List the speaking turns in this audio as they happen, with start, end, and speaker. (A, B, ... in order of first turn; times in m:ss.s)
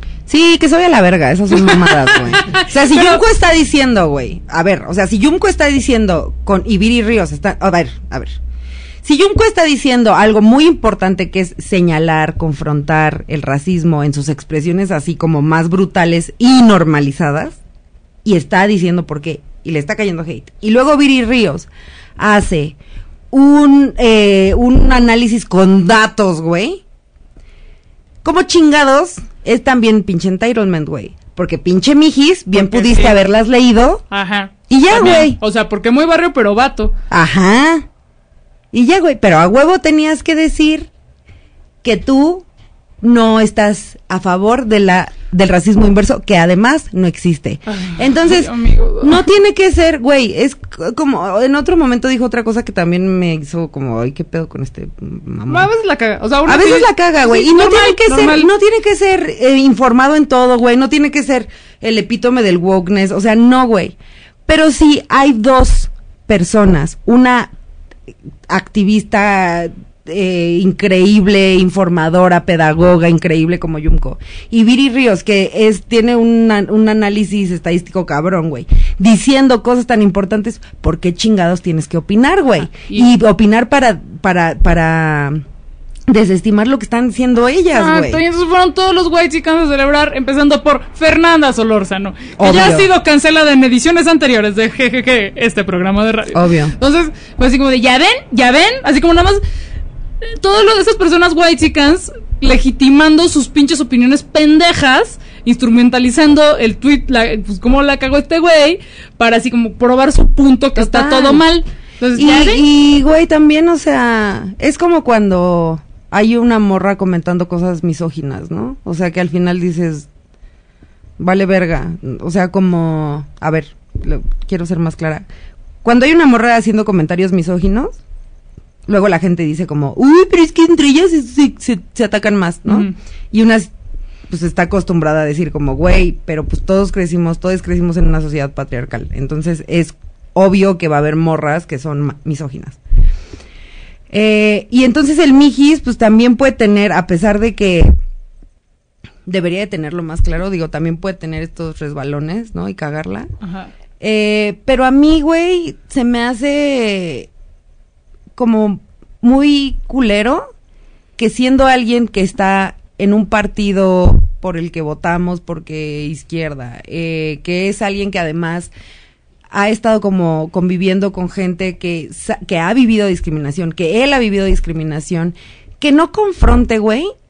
0:00.3-0:08.4 A
0:01.5-0:03.2 B
0:09.0-0:17.6 A
0:18.2-0:22.8 A
0:23.3-0:26.8 A
0:28.2-0:34.0 A
0:32.5-0:33.2 B
0:34.1-0:36.9 B
0:34.7-0:35.4 A
0:37.1-0:37.8 A
0:38.7-0:40.9 A
0:41.8-0:42.4 A
0:43.0-0:55.7 A
0:47.7-0:49.2 B
0:55.5-0:58.5 B
0:56.4-1:04.0 A
1:04.5-1:07.5 A
1:08.5-1:25.4 A
1:22.6-1:23.1 B
1:26.1-1:28.2 A
1:27.7-1:39.4 B
1:32.4-1:32.9 A
1:36.3-1:36.7 A
1:40.2-1:52.6 B
1:50.7-1:51.4 A
1:52.2-2:00.1 A
2:01.2-2:05.3 A
2:05.8-2:08.0 A
2:08.9-2:13.7 A
2:12.7-2:12.9 B
2:14.3-2:22.8 A
2:24.1-2:27.9 A
2:29.2-2:33.3 A
2:33.4-2:33.7 B
2:34.0-2:37.3 A
2:38.4-2:40.5 A
2:41.2-2:48.7 A
2:49.5-2:57.1 A